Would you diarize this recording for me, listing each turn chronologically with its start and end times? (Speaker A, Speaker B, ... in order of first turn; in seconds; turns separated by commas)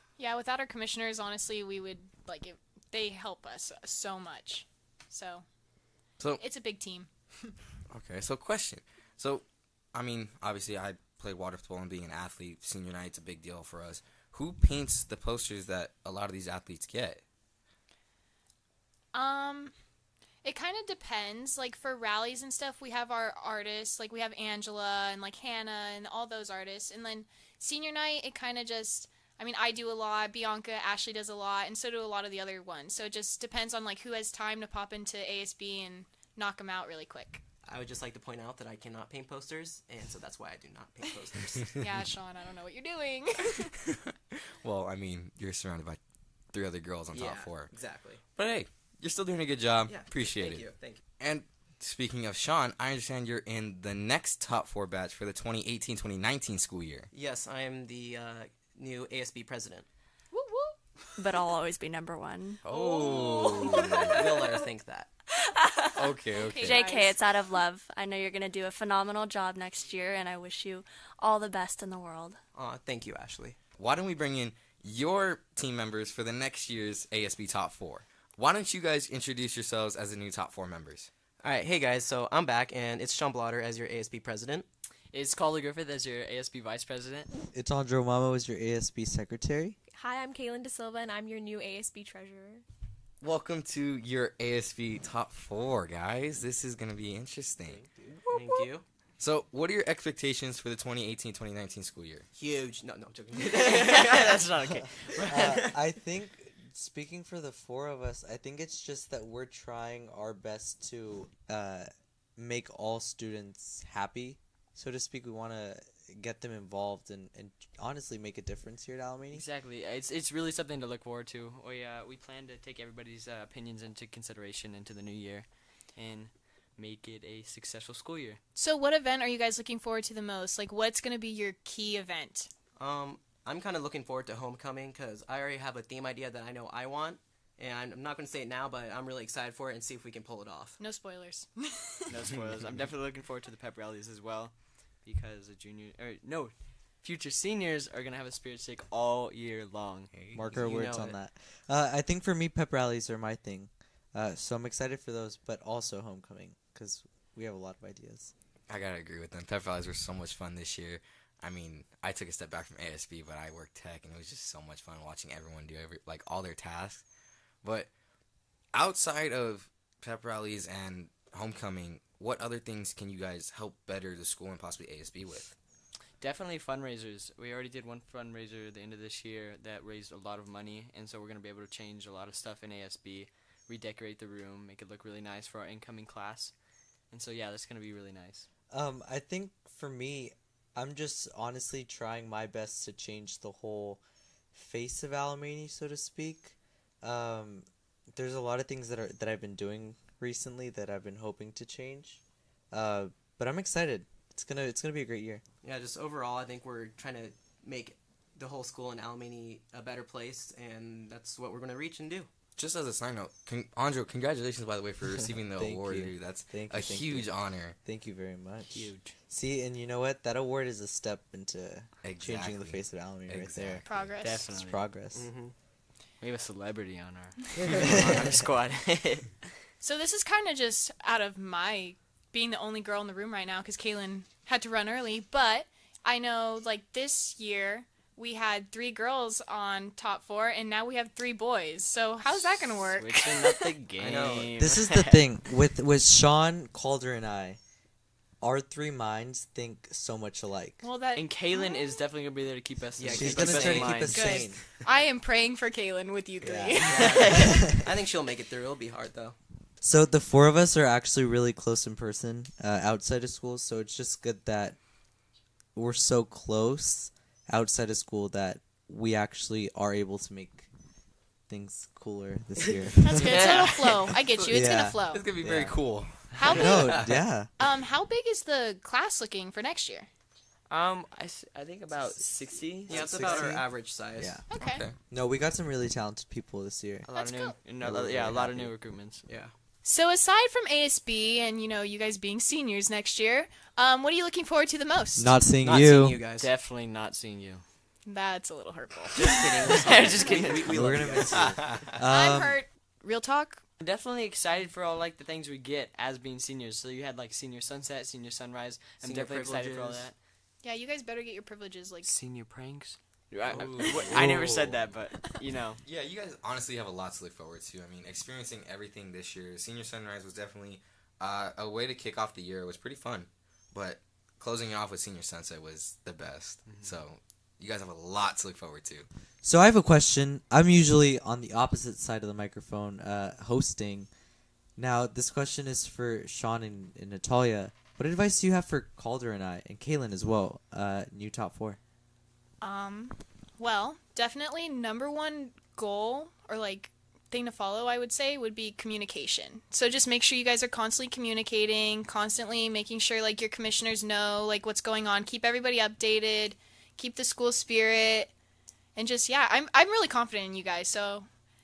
Speaker A: 0.2-5.5, Speaker A: 6.4-7.5, Speaker B: 7.9-17.2, Speaker A: 19.1-19.8, Speaker A: 20.4-37.4, Speaker C: 37.6-41.8, Speaker A: 41.8-43.7, Speaker B: 44.6-46.0, Speaker B: 46.5-47.7, Speaker C: 47.1-48.2, Speaker B: 48.4-57.1, Speaker C: 49.9-51.0, Speaker C: 57.1-59.9, Speaker A: 60.3-60.8, Speaker D: 61.2-62.6, Speaker B: 62.7-64.2, Speaker A: 62.7-63.7, Speaker C: 63.8-65.1, Speaker D: 65.4-72.4, Speaker B: 66.0-66.8, Speaker A: 66.4-67.2, Speaker C: 72.5-73.6, Speaker B: 73.8-81.1, Speaker C: 81.4-84.7, Speaker E: 85.1-87.3, Speaker F: 87.5-89.8, Speaker G: 89.9-92.6, Speaker B: 93.2-97.8, Speaker C: 97.6-98.8, Speaker G: 98.3-98.7, Speaker B: 99.2-102.3, Speaker C: 102.3-104.5, Speaker E: 103.5-105.6, Speaker F: 105.2-119.5, Speaker C: 105.4-105.8, Speaker E: 119.3-128.4, Speaker A: 128.6-132.5, Speaker C: 132.8-140.8, Speaker A: 140.8-142.1, Speaker E: 142.1-150.3, Speaker F: 150.3-158.3, Speaker C: 150.5-151.2, Speaker B: 158.7-167.1, Speaker B: 167.6-167.9, Speaker B: 168.7-175.6, Speaker E: 176.2-186.5, Speaker E: 187.1-188.5, Speaker F: 188.7-194.0, Speaker F: 194.5-205.4, Speaker C: 205.6-212.3, Speaker B: 212.6-217.8, Speaker F: 215.4-223.9, Speaker E: 218.7-219.1, Speaker B: 222.0-224.1, Speaker A: 223.9-224.5, Speaker E: 224.2-224.9, Speaker F: 224.5-225.3, Speaker C: 225.1-225.6, Speaker E: 226.2-229.5, Speaker F: 227.8-228.2, Speaker A: 229.8-243.8, Speaker E: 242.9-245.2, Speaker C: 244.0-244.6, Speaker F: 244.5-247.6, Speaker F: 248.4-250.8, Speaker A: 250.8-252.0, Speaker E: 251.1-254.6, Speaker C: 253.0-254.0, Speaker F: 253.1-254.6, Speaker A: 254.1-257.2, Speaker F: 256.4-257.8, Speaker C: 256.9-259.4, Speaker E: 256.9-257.7, Speaker F: 259.8-264.8, Speaker F: 265.8-270.7, Speaker F: 271.5-273.3, Speaker A: 273.0-275.3, Speaker E: 273.1-274.0, Speaker F: 274.5-275.8, Speaker B: 275.1-277.1, Speaker A: 276.4-277.0, Speaker F: 276.5-277.5, Speaker A: 277.6-280.1, Speaker E: 280.7-283.5, Speaker F: 282.9-284.4, Speaker C: 282.9-284.4, Speaker A: 284.5-284.9, Speaker B: 284.6-285.0, Speaker F: 285.0-287.1, Speaker E: 287.0-289.3, Speaker A: 287.1-287.6, Speaker F: 287.8-288.7, Speaker C: 289.3-289.6, Speaker A: 289.8-295.5, Speaker F: 295.2-296.2, Speaker C: 295.6-296.6, Speaker E: 296.3-297.6, Speaker A: 298.0-299.6, Speaker C: 299.1-301.8, Speaker E: 299.7-301.0, Speaker F: 300.7-302.6, Speaker A: 302.0-303.7, Speaker E: 303.8-310.1, Speaker C: 309.0-310.1, Speaker A: 310.6-312.1, Speaker E: 312.0-315.8, Speaker B: 313.5-314.9, Speaker B: 315.8-329.1, Speaker E: 326.6-327.0, Speaker F: 329.4-334.1, Speaker F: 334.8-341.8, Speaker A: 342.6-358.3, Speaker A: 359.0-361.3